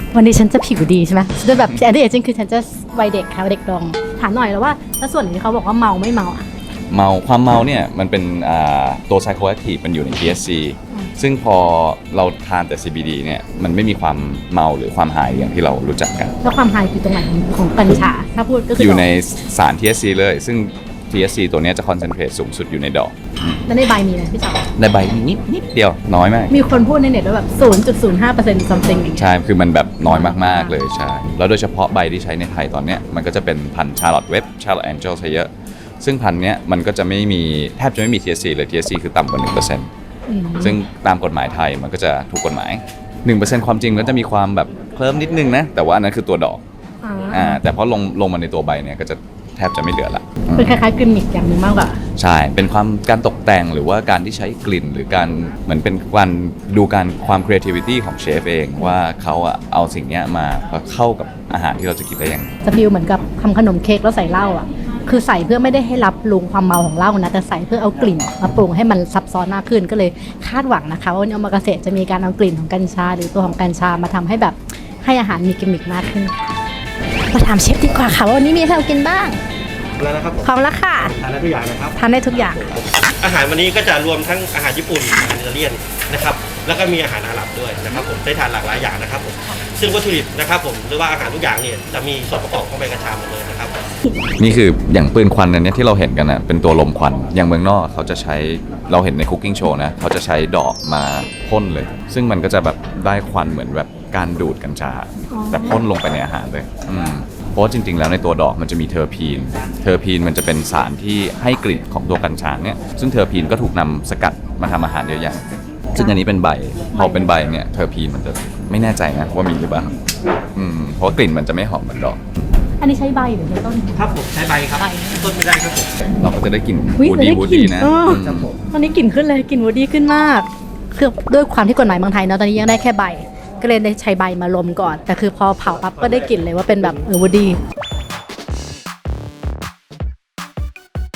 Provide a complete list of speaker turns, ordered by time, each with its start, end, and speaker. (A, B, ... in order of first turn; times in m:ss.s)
0:00.1-0:06.5 A
0:06.9-0:16.3 B
0:16.4-0:19.1 A
0:18.8-0:23.6 B
0:23.6-0:24.6 A
0:24.8-0:26.5 B
0:26.5-0:29.3 A
0:29.2-0:35.5 B
0:30.1-0:30.7 A
0:36.0-0:39.9 B
0:40.3-0:40.8 A
0:40.6-0:46.6 B
0:47.0-0:47.6 A
0:47.3-0:50.8 B
0:50.5-0:52.0 A
0:52.2-1:02.5 B
1:02.6-1:16.6 A
1:17.3-1:19.4 A
1:20.0-1:20.4 C
1:20.4-1:21.1 A
1:21.0-1:33.8 C
1:22.0-1:22.6 A
1:34.4-1:59.9 B
1:45.3-1:45.8 A
1:56.9-1:57.3 A
2:00.5-2:02.2 B
2:02.8-2:03.9 A
2:03.9-2:06.0 C
2:04.7-2:05.4 A
2:06.2-2:08.5 B
2:07.0-2:17.6 A